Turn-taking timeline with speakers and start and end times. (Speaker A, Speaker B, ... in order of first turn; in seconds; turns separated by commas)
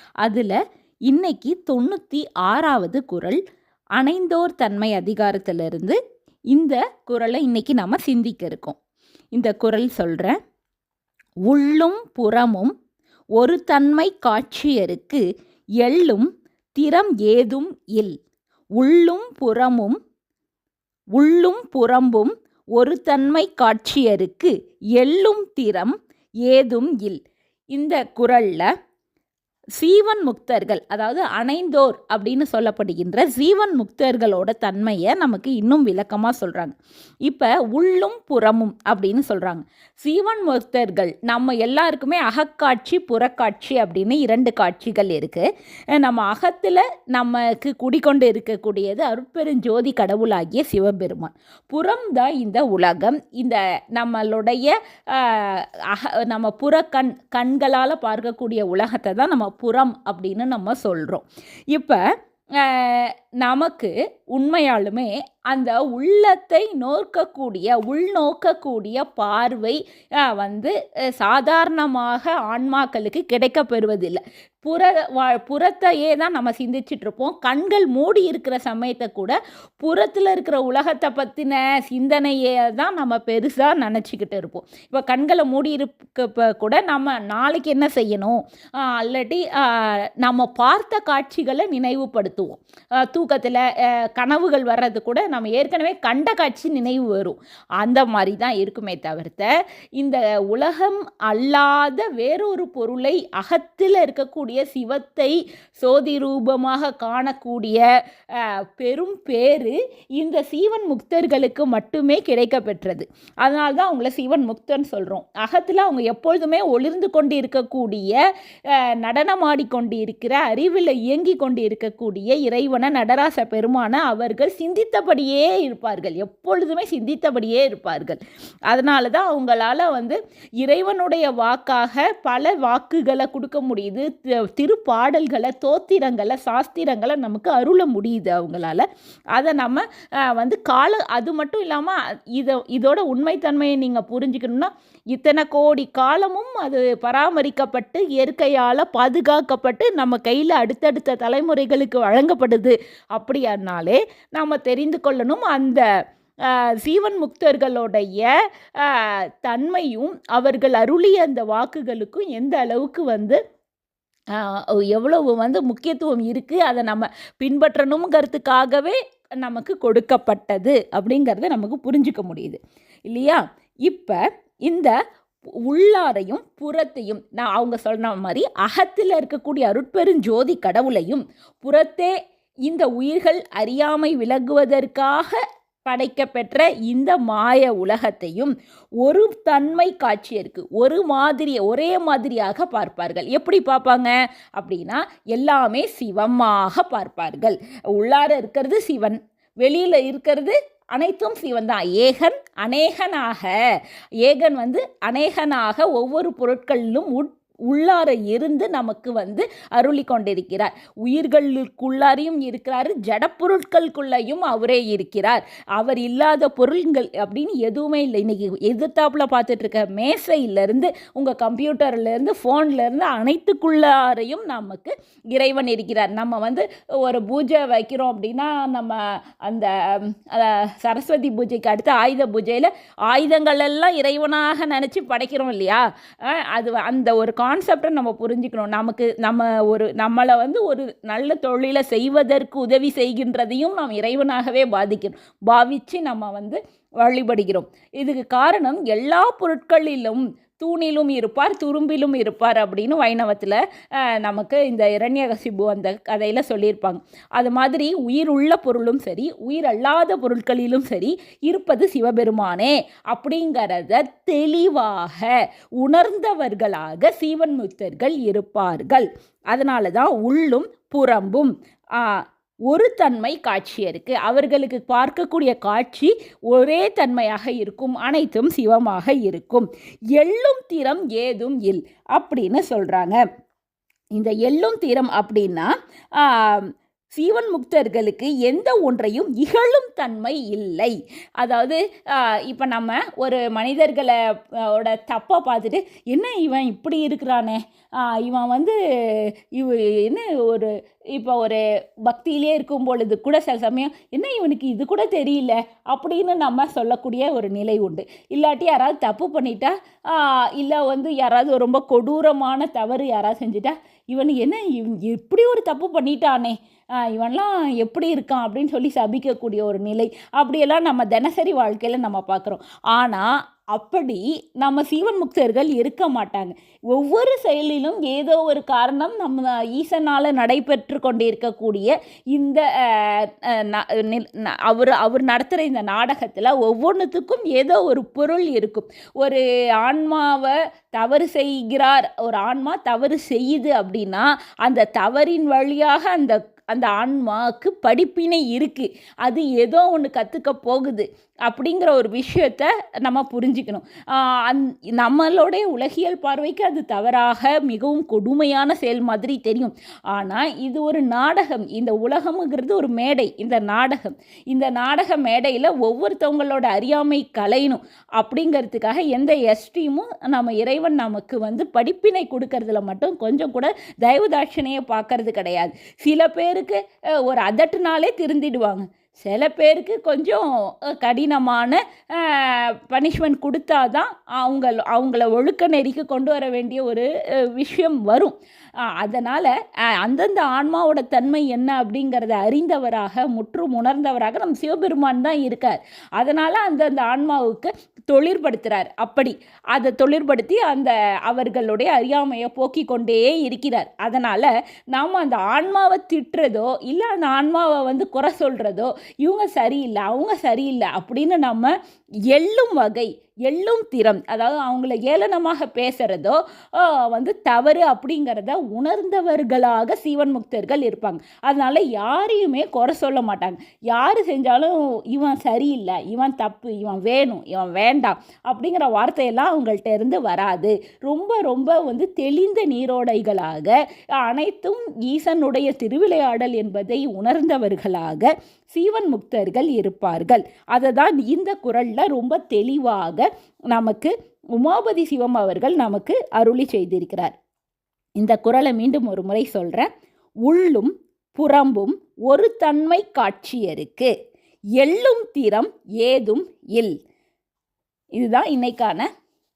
Speaker A: 0.2-0.6, Speaker A: 1.1-3.4, Speaker A: 4.0-6.0, Speaker A: 6.5-8.8, Speaker A: 9.3-10.4, Speaker A: 11.5-12.7, Speaker A: 13.4-15.2, Speaker A: 15.8-18.2, Speaker A: 18.8-20.0, Speaker A: 21.1-25.9, Speaker A: 26.5-27.2, Speaker A: 27.7-28.7, Speaker A: 29.8-36.7, Speaker A: 37.2-45.4, Speaker A: 46.0-62.0, Speaker A: 62.6-107.8, Speaker A: 108.3-118.2, Speaker A: 119.0-128.2, Speaker A: 128.7-155.8, Speaker A: 156.5-158.3, Speaker A: 158.8-163.4, Speaker A: 164.3-174.9, Speaker A: 175.7-182.1, Speaker A: 182.7-203.5, Speaker A: 204.2-283.2, Speaker A: 284.1-294.1, Speaker A: 294.7-388.3, Speaker A: 389.0-389.5, Speaker A: 390.0-411.7, Speaker A: 412.3-447.3, Speaker A: 448.2-449.9, Speaker A: 450.4-454.1, Speaker A: 454.8-456.9, Speaker A: 458.2-459.1